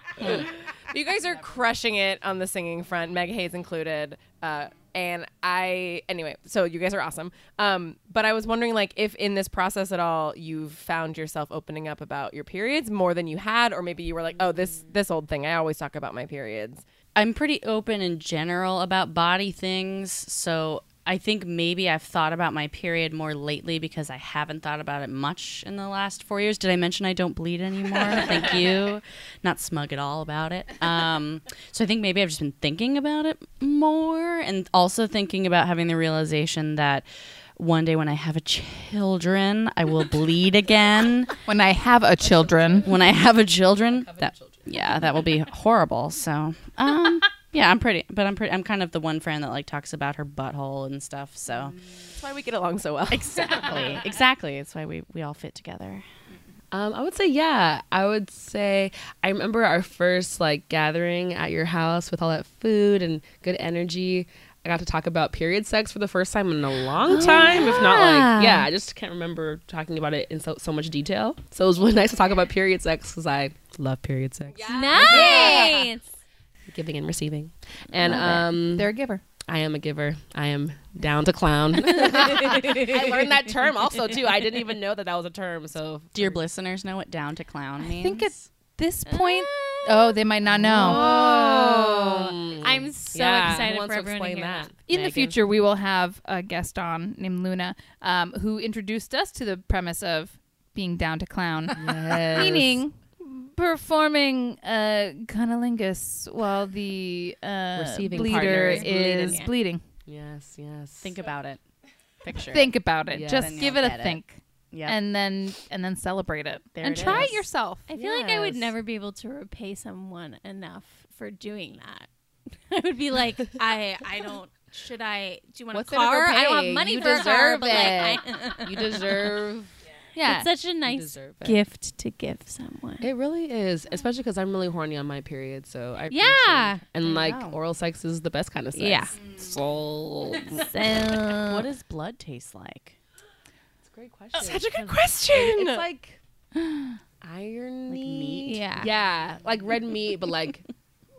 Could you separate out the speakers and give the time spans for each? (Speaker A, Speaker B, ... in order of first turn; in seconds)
Speaker A: 0.2-16.8, 52.1-53.8, 74.5-75.7, 144.3-145.9
Speaker B: 17.2-37.0, 37.6-41.4, 42.8-51.8, 53.1-56.0, 86.1-88.5, 111.0-111.6, 112.2-112.8, 113.3-115.0, 116.8-117.5, 137.0-137.6, 141.3-143.0, 147.9-148.6
Speaker C: 41.5-42.9, 75.1-75.7, 78.0-79.2, 87.8-91.2, 94.9-109.8, 112.5-117.9, 130.2-130.5, 146.6-146.9
Speaker D: 42.2-44.8, 56.7-75.9, 76.7-78.9, 79.5-86.4, 90.5-95.4, 101.8-102.8, 107.8-109.4, 110.1-111.2, 113.1-113.7, 117.0-117.3, 117.9-118.7, 125.7-129.7, 130.8-131.6, 133.0-140.7, 143.8-146.2, 147.2-150.7
Speaker E: 67.0-68.7, 74.7-76.1, 89.1-90.2, 90.8-94.7, 108.4-109.5, 117.9-122.1, 122.7-129.4, 130.2-133.1, 136.1-136.8, 138.7-139.2, 140.5-141.7, 148.4-148.9